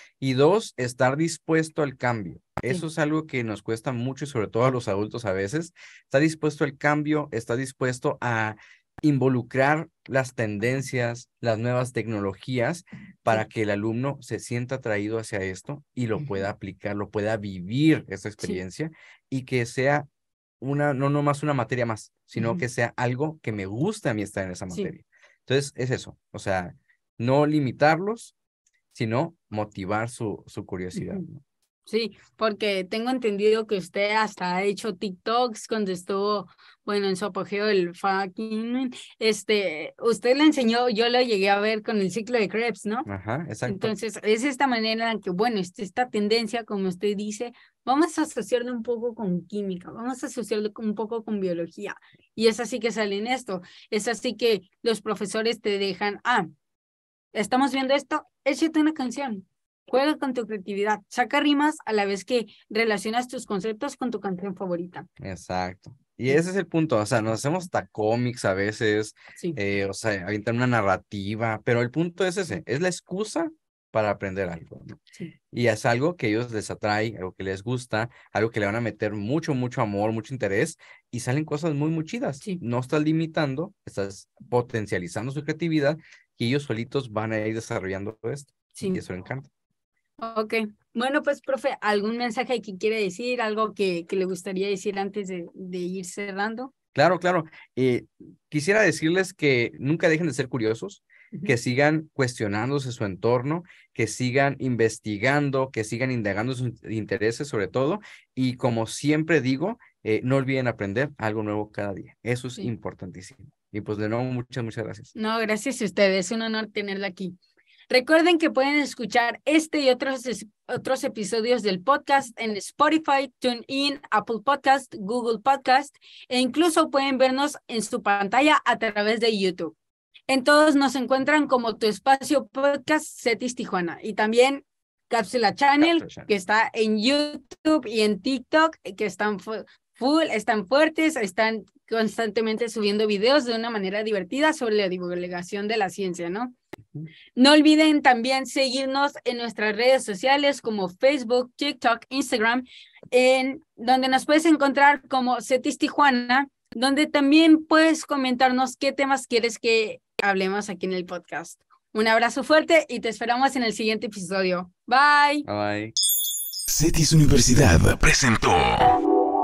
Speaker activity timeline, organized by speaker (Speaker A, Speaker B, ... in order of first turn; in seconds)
Speaker A: 0.2-20.1, 20.6-28.3, 28.9-31.4, 43.1-43.9, 65.2-75.0, 75.5-89.5, 96.9-115.1, 135.8-136.3, 165.4-165.9
Speaker B: 22.4-22.6, 30.9-31.2, 31.9-43.1, 43.7-56.5, 57.3-65.1, 88.8-89.0, 90.2-96.7, 115.1-117.4, 117.9-129.7, 130.3-146.6, 147.3-165.4
Speaker C: 166.7-168.9